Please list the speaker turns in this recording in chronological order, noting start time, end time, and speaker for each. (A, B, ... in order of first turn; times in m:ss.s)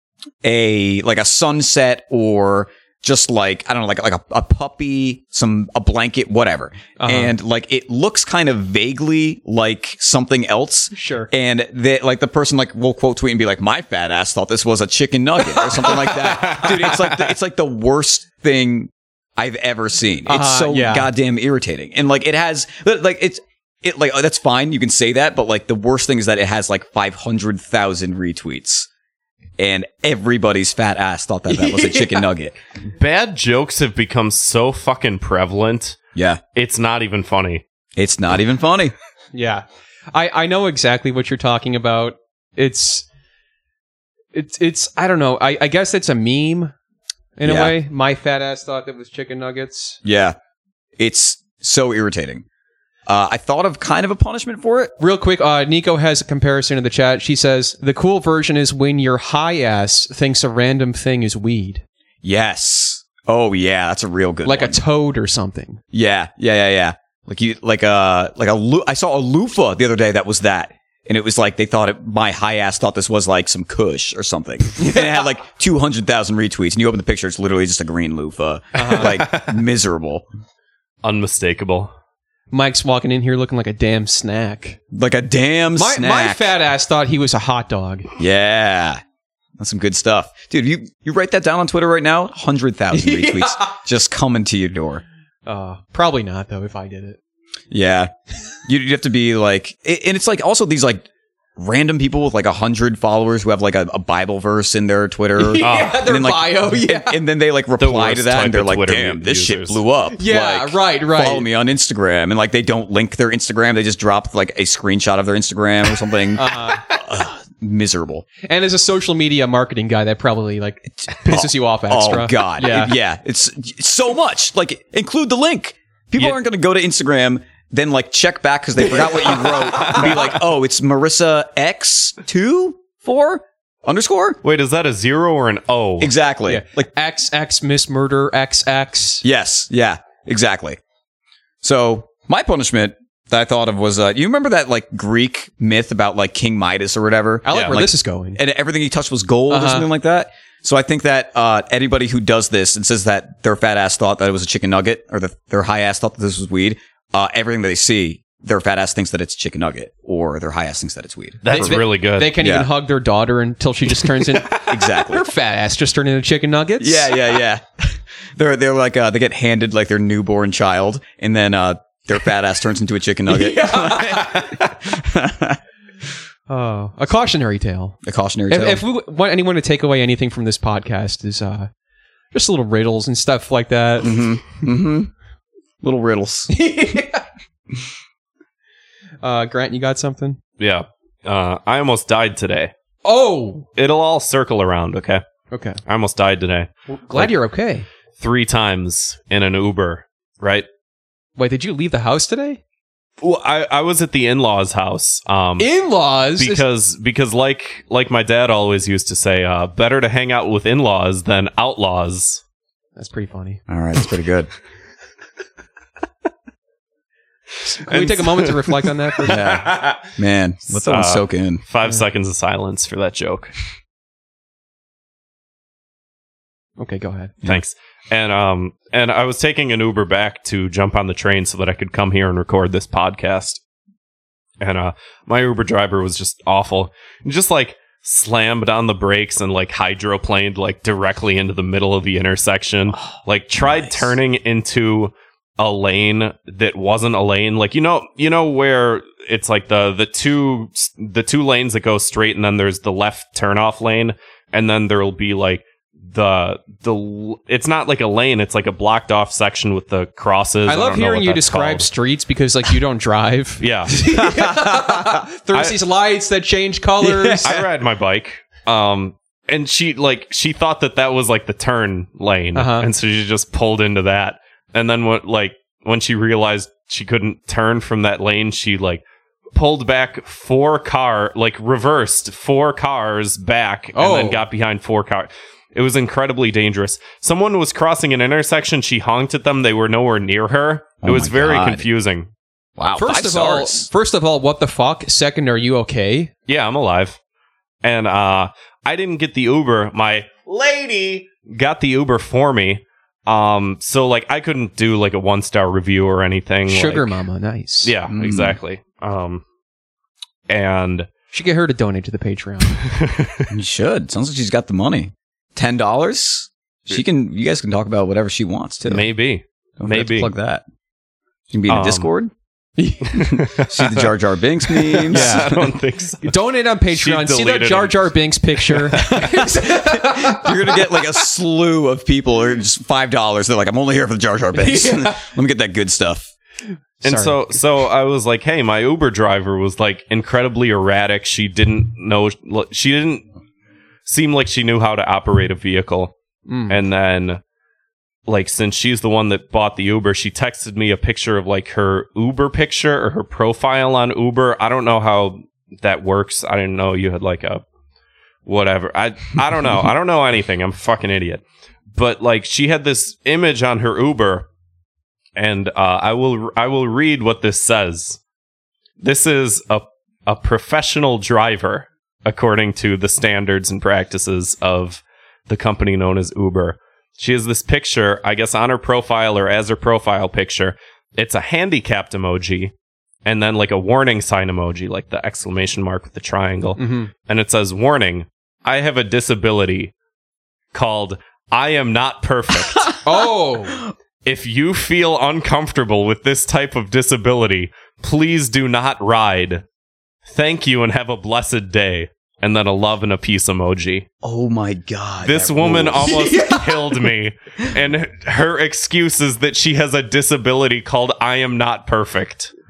0:00.4-0:28.9 A
0:07.0-0:07.3 B
0:10.9-0:11.3 B
0:15.5-0:16.7 B
0:20.2-0:21.1 B
0:29.6-0:32.6 A
0:31.5-0:32.2 B
0:33.0-0:36.0 C
0:36.1-0:36.4 A
0:36.5-0:37.6 C
0:38.0-0:38.9 A
0:39.3-0:43.0 B
0:44.3-0:46.7 B
0:47.4-0:50.0 B
0:47.4-0:47.7 A
0:50.0-0:50.4 A
0:51.0-0:52.4 A
0:53.0-0:54.9 A
0:55.0-1:01.8 B
1:02.2-1:04.8 A
1:04.4-1:05.8 B
1:05.9-1:20.2 A
1:14.8-1:15.1 B
1:18.7-1:19.1 B
1:18.9-1:19.6 C
1:21.0-1:21.9 C
1:22.5-1:24.8 B
1:24.9-1:26.5 A
1:25.8-1:28.1 B
1:28.2-1:29.0 A
1:29.6-1:35.0 A
1:32.9-1:33.7 B
1:35.4-1:37.2 B
1:37.7-1:38.1 A
1:38.6-1:58.2 A
1:45.4-1:47.2 B
1:45.6-1:46.0 C
1:47.8-1:49.8 C
1:50.1-1:51.4 B
1:56.4-1:56.8 B
1:58.5-2:02.9 B
2:01.0-2:14.4 A
2:09.8-2:10.2 C
2:14.4-2:16.1 C
2:16.0-2:16.9 A
2:16.5-2:19.2 B
2:19.2-2:20.8 A
2:21.6-2:41.8 A
2:27.4-2:28.4 B
2:29.5-2:29.9 B
2:41.4-2:42.4 C
2:41.5-2:47.1 B
2:42.4-2:42.7 A
2:44.1-2:44.5 C
2:44.7-2:45.3 A
2:46.8-2:55.6 A
2:53.3-2:54.4 B
2:56.5-2:58.0 B
2:58.0-2:58.8 A
2:58.5-3:01.7 B
3:02.3-3:04.2 B
3:04.0-3:05.1 A
3:05.8-3:06.5 A
3:06.5-3:07.2 B
3:09.2-3:10.4 B
3:10.6-3:12.7 C
3:13.0-3:13.7 B
3:13.8-3:15.2 C
3:15.5-3:15.8 B
3:15.8-3:17.3 C
3:16.9-3:17.8 B
3:18.2-3:20.6 C
3:21.4-3:22.6 B
3:23.2-3:25.7 C
3:25.6-3:26.6 B
3:26.4-3:32.4 C
3:33.0-3:33.6 B
3:33.7-3:34.5 A
3:37.6-3:39.4 B
3:37.9-3:38.7 C
3:39.2-3:41.6 A
3:39.4-3:39.9 C
3:40.7-3:43.5 C
3:46.8-3:47.4 B
3:47.4-3:53.6 C
3:54.6-4:21.9 C
4:02.9-4:04.2 A
4:20.6-4:27.5 B
4:23.6-4:24.0 C
4:24.2-4:25.2 A
4:27.0-4:27.6 A
4:27.4-4:39.0 C
4:32.5-4:32.9 B
4:39.5-4:52.3 C
4:43.9-4:44.4 B
4:51.0-4:51.9 A
4:52.8-4:53.9 A
4:53.0-4:56.3 B
4:56.5-4:57.2 C
4:57.8-5:07.2 C
5:06.7-5:07.9 B
5:07.8-5:09.4 C
5:08.1-5:08.6 A
5:10.5-5:11.1 C
5:11.3-5:12.8 B
5:12.8-5:13.5 C
5:13.5-5:19.0 A
5:18.8-5:20.3 C
5:19.8-5:20.6 A
5:21.5-5:22.3 A
5:21.7-5:22.1 C
5:22.8-5:23.4 B
5:23.2-5:24.1 C
5:23.6-5:25.7 A
5:24.8-5:26.3 C
5:25.1-5:25.5 B
5:26.2-5:31.0 B
5:26.9-5:28.1 C
5:28.7-5:29.1 C
5:29.0-5:36.3 A
5:34.5-5:35.2 B
5:37.0-5:37.5 B
5:37.0-5:43.2 C
5:44.0-5:46.1 C
5:46.5-5:46.8 B
5:46.7-5:47.4 C
5:48.3-5:57.6 C
5:58.4-6:01.4 C
6:01.9-6:04.4 C
6:05.4-6:08.2 C
6:09.0-6:22.7 C
6:23.2-6:29.9 C
6:26.8-6:27.1 B
6:30.7-6:32.9 C
6:33.0-6:33.8 B
6:34.2-6:39.6 C
6:40.3-6:44.0 C
6:44.2-6:46.3 A
6:45.2-6:52.5 C
6:46.1-6:46.9 B